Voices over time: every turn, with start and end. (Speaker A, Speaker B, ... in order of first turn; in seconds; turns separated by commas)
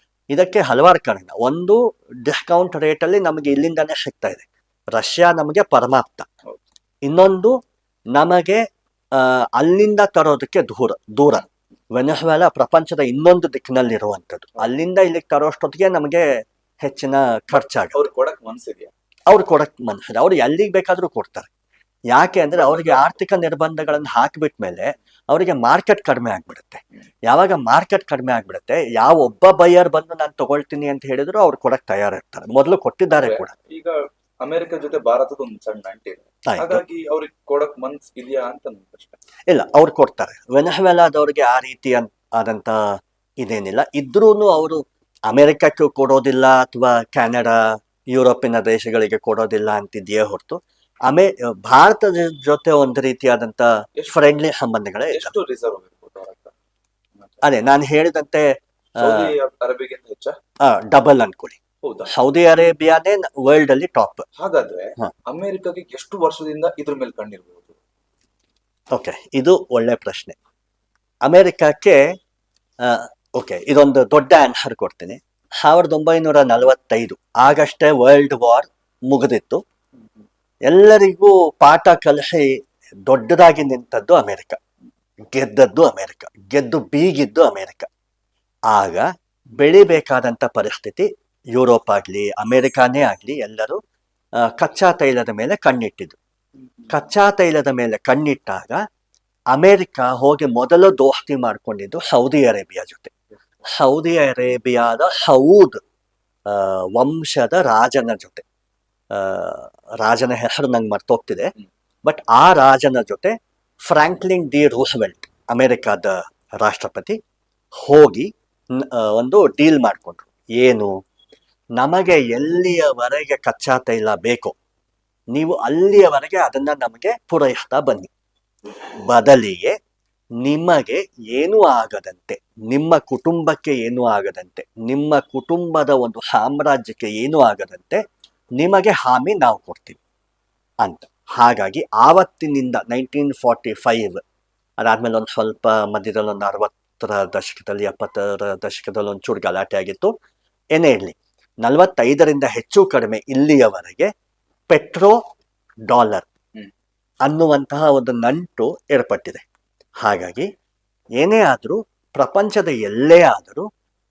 Speaker A: 0.3-6.3, Speaker A: 7.0-7.6, Speaker A: 8.1-16.3, Speaker A: 16.8-18.0, Speaker B: 17.9-18.9, Speaker A: 19.3-21.5, Speaker A: 22.1-33.5, Speaker B: 22.5-23.2, Speaker B: 33.2-39.2, Speaker A: 36.5-36.8, Speaker A: 39.5-42.8, Speaker A: 43.4-55.3, Speaker B: 55.1-56.5, Speaker A: 57.4-59.3, Speaker B: 59.0-60.4, Speaker A: 60.6-64.2, Speaker B: 61.8-62.1, Speaker B: 64.4-67.8, Speaker A: 68.9-70.3, Speaker A: 71.2-72.0, Speaker A: 72.8-79.6, Speaker A: 80.7-82.5, Speaker A: 83.0-84.6, Speaker A: 85.3-87.9, Speaker A: 88.7-93.8, Speaker A: 94.4-96.2, Speaker B: 96.7-97.0, Speaker A: 96.9-98.8, Speaker A: 99.5-103.1, Speaker A: 103.7-105.8, Speaker A: 106.5-108.4, Speaker A: 109.1-111.5, Speaker A: 112.0-113.3, Speaker A: 113.9-117.2, Speaker A: 117.8-120.9, Speaker A: 121.8-124.5, Speaker A: 125.3-128.1, Speaker A: 129.1-129.7, Speaker A: 130.4-138.0, Speaker A: 138.6-140.0, Speaker A: 140.8-144.2, Speaker A: 144.8-150.1, Speaker A: 150.7-154.1, Speaker A: 154.7-155.2, Speaker A: 155.9-156.3, Speaker A: 157.2-159.4, Speaker A: 160.0-160.5, Speaker A: 161.2-163.7